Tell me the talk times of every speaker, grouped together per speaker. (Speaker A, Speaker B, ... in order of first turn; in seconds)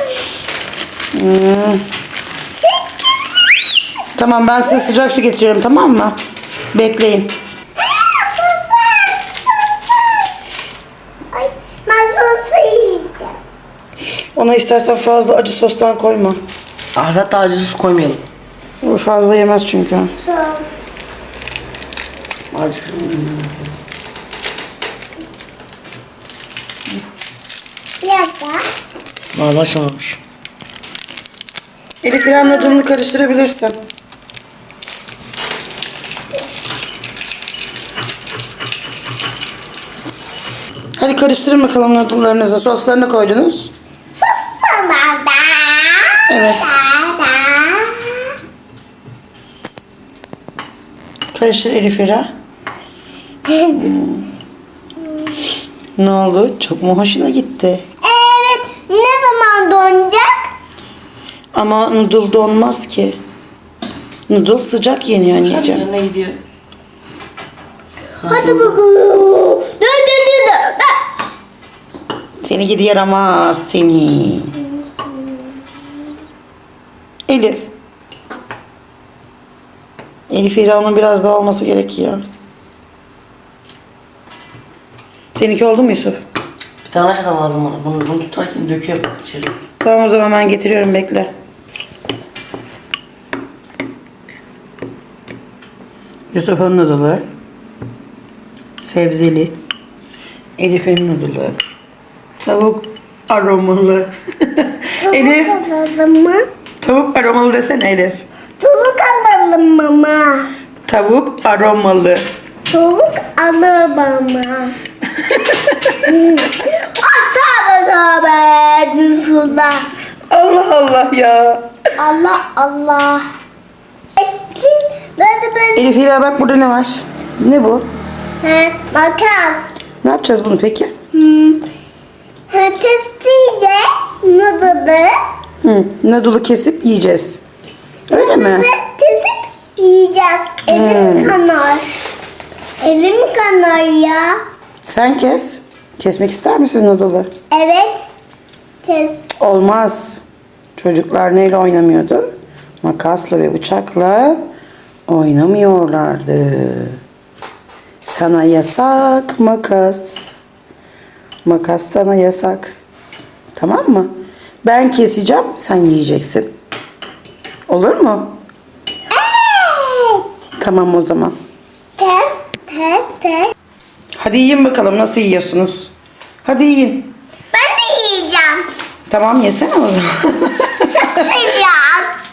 Speaker A: 1.1-1.9, 4.2-6.2, 6.7-7.3, 14.3-16.4, 18.8-20.1, 32.0-33.8, 41.0-43.7, 46.3-46.8, 51.3-52.3, 53.6-54.3, 56.0-57.8, 61.5-63.2, 64.3-65.9, 72.4-74.5, 77.3-77.7, 80.3-82.2, 85.3-86.2, 89.8-91.3, 96.3-97.2, 98.8-99.5, 100.6-101.6, 102.4-105.6, 106.8-108.2, 110.9-112.2, 115.2-115.9, 120.3-121.7, 125.8-127.9, 130.0-130.9, 135.6-137.4, 138.1-138.7, 140.7-141.4, 144.8-147.3, 149.4-150.2, 150.8-154.4, 155.1-157.0, 158.1-160.4, 161.4-162.8, 163.6-164.1, 164.6-166.5, 167.7-168.4, 170.6-171.4, 174.2-175.9, 176.4-177.1, 179.1-181.3
Speaker B: 2.5-3.5, 7.8-10.3, 11.3-13.4, 20.2-20.7, 28.0-28.6, 32.2-32.8, 44.1-48.4, 58.0-60.4, 68.2-71.0, 74.6-75.7, 105.0-106.5, 108.6-110.5, 112.7-114.8, 116.0-119.9, 122.0-123.3, 124.2-125.9, 128.4-129.8, 131.1-131.6, 132.5-135.2, 138.1-141.9, 142.8-144.4, 147.5-148.1, 148.8-149.3, 169.1-170.3, 172.0-173.5, 177.5-178.7, 180.9-182.1
Speaker C: 16.9-18.2, 22.5-23.7, 29.3-30.2, 65.4-66.4, 68.2-68.7, 86.8-89.5